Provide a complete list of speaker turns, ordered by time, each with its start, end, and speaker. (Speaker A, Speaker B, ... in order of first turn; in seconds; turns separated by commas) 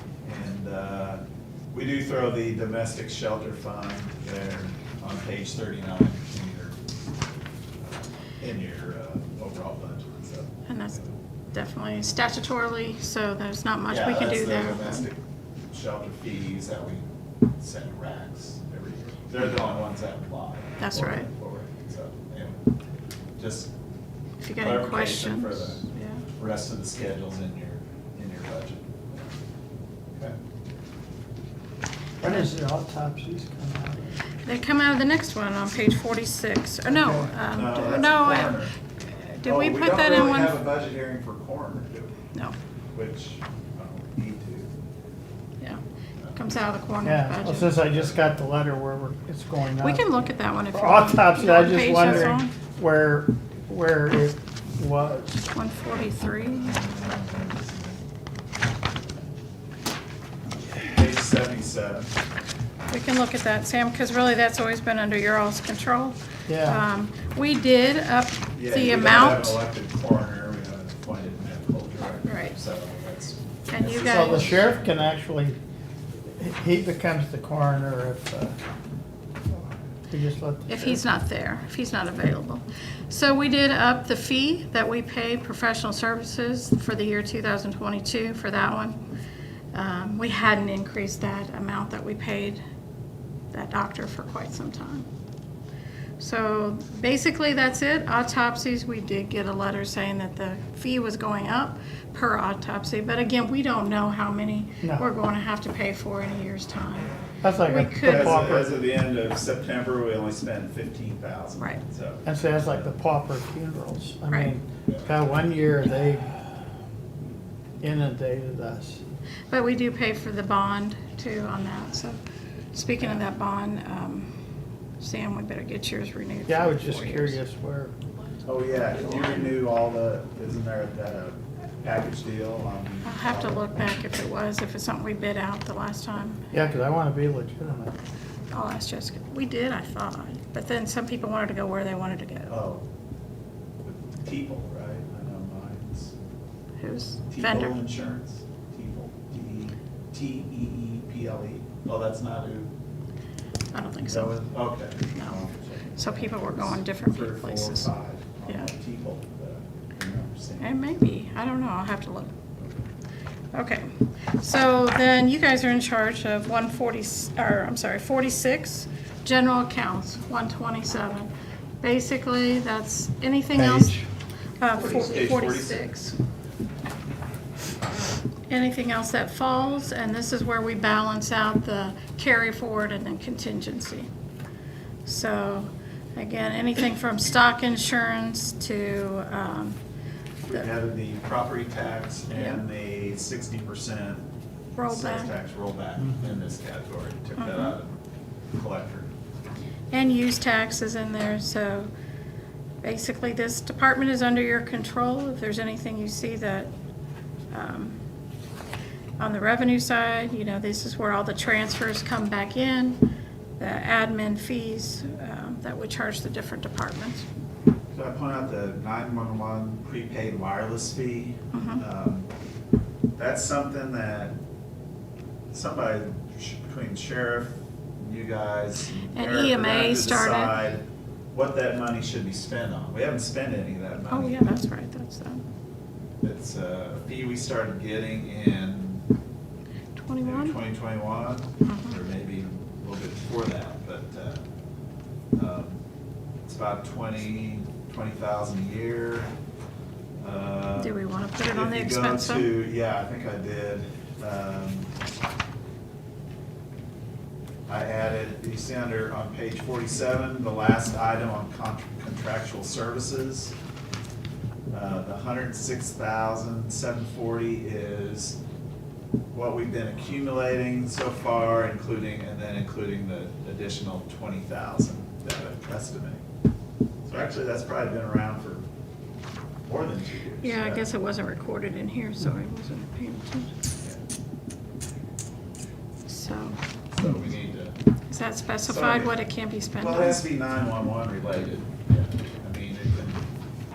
Speaker A: 0.2-6.8, Speaker A: 7.8-11.1, Speaker B: 10.7-11.0, Speaker B: 11.5-15.1, Speaker A: 13.9-15.2, Speaker A: 15.7-17.0, Speaker A: 17.6-22.6, Speaker B: 20.8-21.3, Speaker A: 23.4-23.7, Speaker B: 24.4-26.2, Speaker A: 24.5-25.8, Speaker A: 26.4-29.3, Speaker C: 32.2-34.2, Speaker B: 34.4-38.6, Speaker C: 36.9-37.3, Speaker A: 37.5-38.7, Speaker B: 39.3-40.5, Speaker A: 39.4-42.1, Speaker A: 42.9-44.7, Speaker B: 46.3-47.7, Speaker C: 47.0-50.0, Speaker A: 47.8-48.1, Speaker B: 49.8-52.5, Speaker C: 50.7-55.4, Speaker B: 55.5-56.8, Speaker A: 56.5-58.0, Speaker A: 60.7-62.1, Speaker B: 62.9-69.6, Speaker C: 66.5-66.8, Speaker A: 68.5-74.8, Speaker B: 72.2-72.6, Speaker B: 73.7-74.6, Speaker C: 74.0-75.6, Speaker C: 76.3-78.5, Speaker C: 80.1-81.0, Speaker B: 80.7-89.0, Speaker B: 89.7-92.6, Speaker B: 93.5-95.0, Speaker B: 96.2-108.5, Speaker C: 107.4-108.8, Speaker A: 108.0-112.9, Speaker C: 112.2-116.3, Speaker A: 114.8-115.1, Speaker C: 117.8-119.0, Speaker B: 119.5-122.2, Speaker B: 122.7-124.3, Speaker B: 125.0-127.4, Speaker C: 126.5-127.9, Speaker A: 128.4-133.7, Speaker B: 129.0-129.4, Speaker B: 133.0-136.4, Speaker C: 136.5-138.0, Speaker B: 138.5-142.5, Speaker A: 142.5-142.8, Speaker A: 143.8-146.1, Speaker B: 146.8-147.8, Speaker A: 147.3-152.7, Speaker B: 153.7-154.3, Speaker A: 154.0-161.1, Speaker B: 156.0-157.9, Speaker B: 160.6-162.3, Speaker A: 162.6-162.8, Speaker B: 163.5-171.3, Speaker B: 171.8-174.0, Speaker C: 173.5-174.0, Speaker B: 174.6-176.2, Speaker A: 174.7-176.0, Speaker B: 178.5-184.1, Speaker B: 185.1-189.8, Speaker A: 190.4-194.2, Speaker B: 194.8-195.3, Speaker A: 194.8-198.0, Speaker B: 197.4-197.7, Speaker A: 198.5-199.1, Speaker B: 199.9-201.9, Speaker B: 202.8-206.7, Speaker B: 207.5-208.0, Speaker B: 209.2-213.0, Speaker B: 213.6-217.2, Speaker A: 217.9-222.3, Speaker B: 221.5-221.8, Speaker A: 223.2-224.4, Speaker A: 225.5-234.6, Speaker B: 229.1-230.5, Speaker B: 234.1-235.4, Speaker A: 236.2-239.1, Speaker B: 239.9-240.6, Speaker A: 240.2-244.4, Speaker B: 241.6-242.0, Speaker A: 245.3-245.8, Speaker A: 246.4-249.3, Speaker A: 250.2-254.9, Speaker B: 250.8-252.5, Speaker A: 257.7-263.5, Speaker A: 264.7-268.4, Speaker A: 269.3-276.2, Speaker A: 277.1-278.6, Speaker A: 279.6-280.9, Speaker B: 280.4-283.5, Speaker B: 286.1-286.6, Speaker A: 286.9-287.7, Speaker B: 288.1-290.2, Speaker A: 288.6-289.1, Speaker A: 289.7-293.2